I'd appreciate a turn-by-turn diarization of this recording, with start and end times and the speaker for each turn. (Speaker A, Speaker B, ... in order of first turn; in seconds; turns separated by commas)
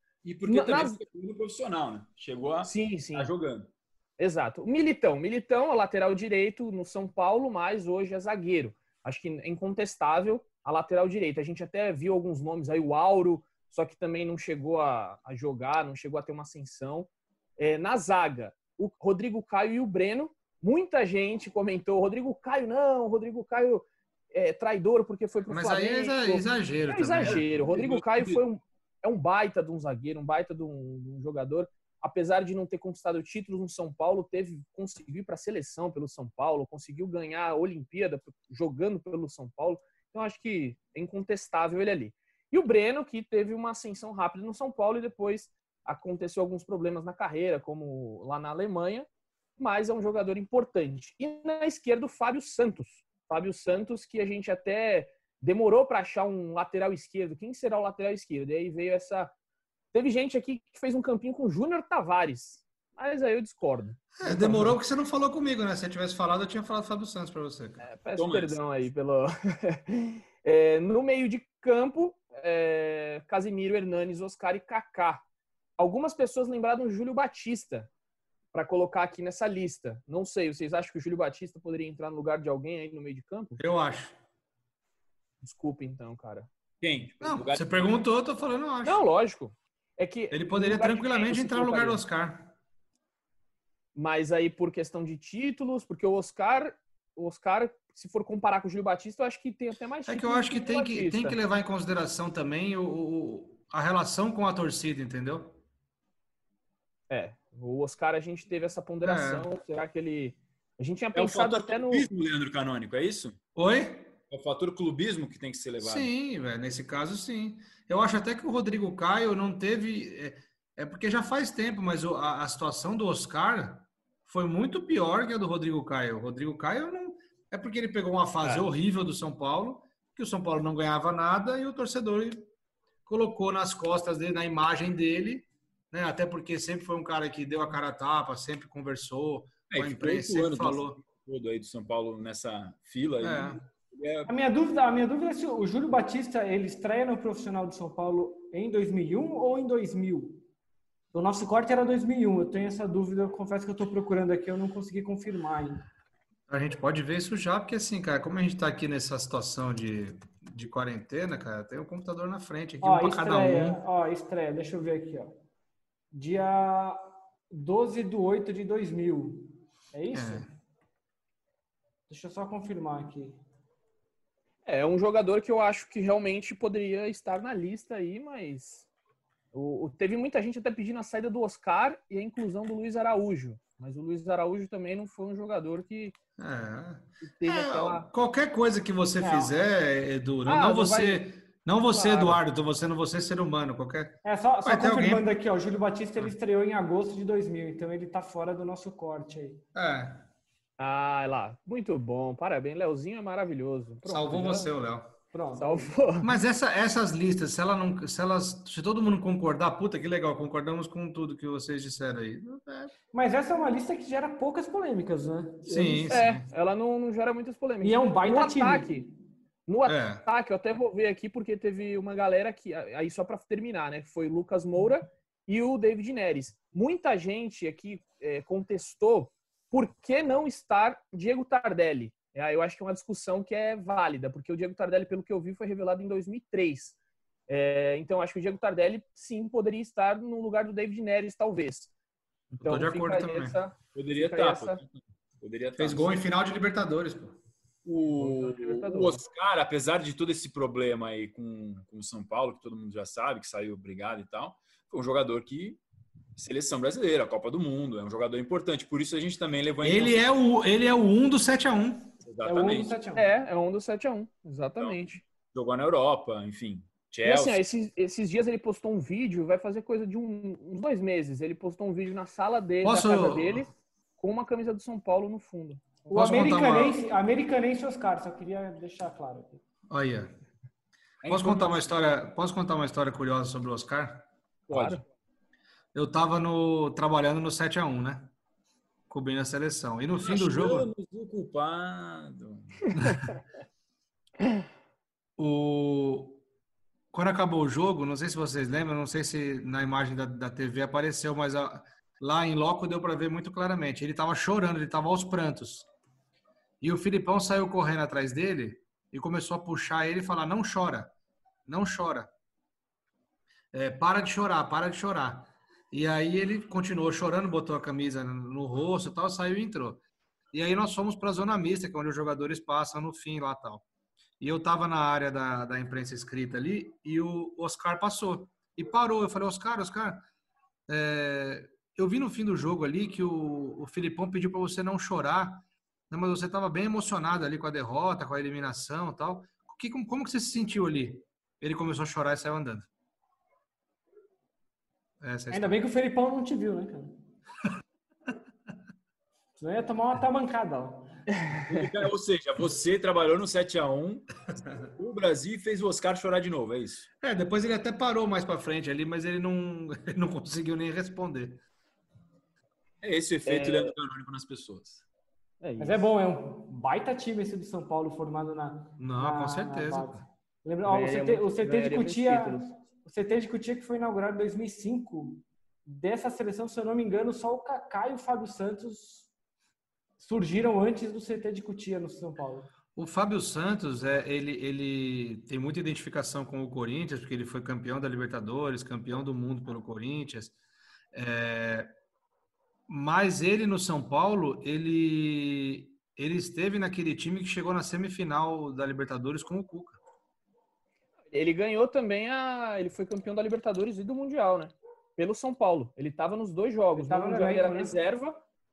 Speaker A: 0.2-3.7, Speaker B: 0.5-1.0, Speaker B: 2.6-3.3, Speaker B: 4.2-49.1, Speaker C: 25.5-27.4, Speaker A: 27.2-28.4, Speaker B: 49.6-59.3, Speaker B: 59.9-64.8, Speaker C: 64.2-67.9, Speaker B: 67.8-75.2, Speaker A: 68.2-68.6, Speaker B: 75.8-77.9, Speaker B: 78.5-83.6, Speaker C: 83.6-84.2, Speaker B: 85.4-86.5, Speaker A: 86.8-87.9, Speaker C: 87.2-89.0, Speaker B: 88.8-92.0, Speaker C: 90.3-92.5, Speaker B: 94.0-101.4, Speaker C: 100.1-105.6, Speaker B: 107.1-112.1, Speaker C: 109.0-109.5, Speaker A: 111.2-113.4, Speaker C: 113.5-114.1, Speaker A: 114.3-116.1, Speaker C: 115.8-132.5, Speaker C: 133.1-141.0, Speaker A: 139.7-144.3, Speaker C: 143.2-143.6, Speaker D: 144.3-150.4, Speaker D: 151.1-155.8, Speaker C: 156.5-163.8, Speaker D: 162.8-165.3, Speaker D: 166.1-170.5, Speaker C: 170.1-170.5, Speaker D: 172.1-173.4, Speaker B: 174.7-178.9, Speaker B: 179.5-186.2, Speaker C: 186.4-195.3, Speaker B: 187.2-188.1, Speaker D: 189.2-189.5, Speaker B: 190.5-191.3, Speaker B: 191.9-192.4, Speaker D: 194.2-199.6, Speaker C: 199.7-200.2, Speaker B: 200.8-204.7, Speaker C: 204.1-205.1, Speaker D: 205.3-205.9, Speaker B: 205.5-206.3, Speaker C: 206.2-212.9, Speaker D: 213.1-216.2, Speaker C: 215.7-216.5, Speaker B: 216.1-219.1, Speaker D: 217.8-219.1, Speaker B: 219.7-237.0, Speaker C: 219.9-220.2, Speaker B: 237.5-241.9, Speaker C: 242.5-243.6, Speaker B: 242.6-244.8, Speaker A: 243.9-246.2, Speaker C: 245.8-247.4, Speaker A: 247.8-255.8, Speaker B: 248.2-249.2, Speaker A: 256.4-260.3, Speaker C: 259.8-262.1, Speaker A: 262.2-262.9, Speaker D: 262.4-263.3, Speaker B: 263.1-265.2, Speaker A: 265.5-267.6, Speaker B: 267.2-276.4, Speaker C: 272.8-273.7, Speaker D: 276.1-279.6, Speaker C: 276.1-277.0, Speaker C: 279.9-280.3, Speaker A: 281.2-281.9, Speaker C: 281.2-284.3, Speaker B: 284.7-285.0, Speaker A: 284.7-285.1, Speaker C: 285.9-288.3, Speaker C: 289.1-290.9, Speaker A: 290.2-293.1, Speaker C: 295.4-296.4, Speaker C: 297.1-305.9, Speaker C: 306.8-311.1, Speaker C: 311.7-312.3, Speaker C: 313.7-323.9, Speaker C: 324.4-330.2, Speaker C: 330.9-342.9, Speaker C: 345.2-345.8, Speaker D: 345.5-347.2, Speaker D: 349.6-351.2, Speaker A: 351.7-357.1, Speaker C: 357.2-361.6, Speaker A: 363.0-365.0, Speaker B: 363.5-363.9, Speaker B: 365.6-366.0, Speaker D: 365.8-379.3, Speaker C: 369.0-370.2, Speaker B: 370.9-372.7, Speaker D: 380.2-382.7, Speaker C: 382.9-390.5, Speaker C: 391.1-391.9, Speaker C: 392.9-400.0, Speaker B: 401.3-408.4, Speaker D: 407.0-407.9